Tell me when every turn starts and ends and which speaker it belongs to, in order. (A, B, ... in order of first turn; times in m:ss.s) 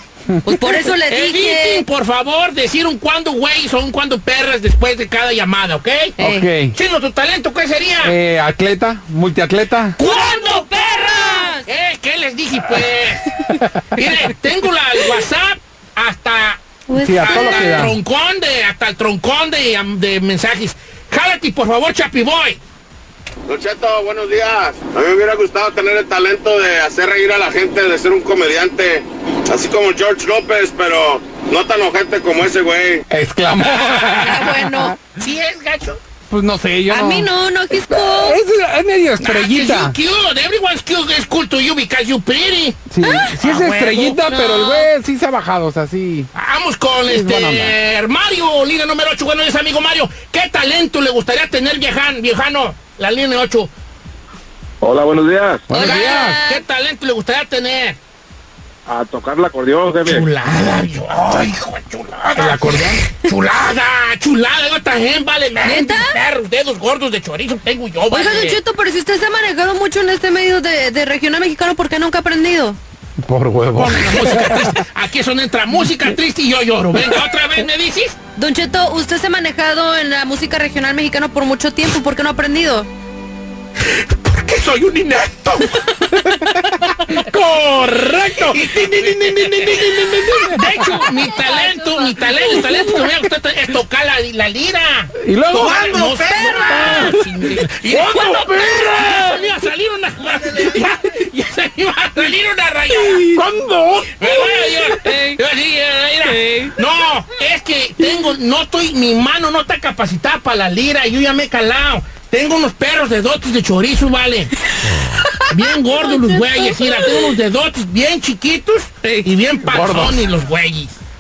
0:00.5-0:01.8 A
0:01.1-0:06.2 B
0:06.2-0:06.5 A
0:06.2-0:06.7 C
0:06.7-0:08.1 B
0:08.0-0:10.0 C
0:10.0-0:11.6 A
0:10.0-0:13.3 B
0:14.0-0:16.6 B
0:16.9-0:17.8 A
0:17.0-0:17.9 C
0:17.2-0:22.6 B
0:23.5-0:33.0 D
0:33.1-0:35.0 C
0:33.8-0:34.2 B
0:34.2-0:35.0 A
0:35.2-0:36.0 B
0:36.3-0:39.9 C
0:36.9-0:38.4 A
0:39.2-0:44.2 B
0:42.9-0:46.3 C
0:43.0-0:43.3 A
0:44.3-0:44.9 A
0:46.3-0:53.7 B
0:47.1-0:47.7 C
0:54.8-0:55.6 E
0:55.7-0:56.4 C
0:55.7-0:56.6 A
0:55.8-0:58.0 B
0:58.9-1:00.2 E
1:00.0-1:08.6 B
1:02.4-1:03.0 C
1:05.6-1:06.2 A
1:08.1-1:12.8 A
1:13.2-1:14.7 C
1:13.8-1:18.2 B
1:18.4-1:22.9 A
1:23.9-1:25.6 B
1:27.2-1:43.4 B
1:28.2-1:30.6 C
1:31.6-1:31.9 A
1:35.2-1:37.2 C
1:36.4-1:36.8 A
1:37.9-1:39.3 C
1:43.2-1:44.3 C
1:44.2-1:54.5 B
1:55.5-2:01.0 B
1:55.9-1:57.3 A
1:59.7-2:00.2 C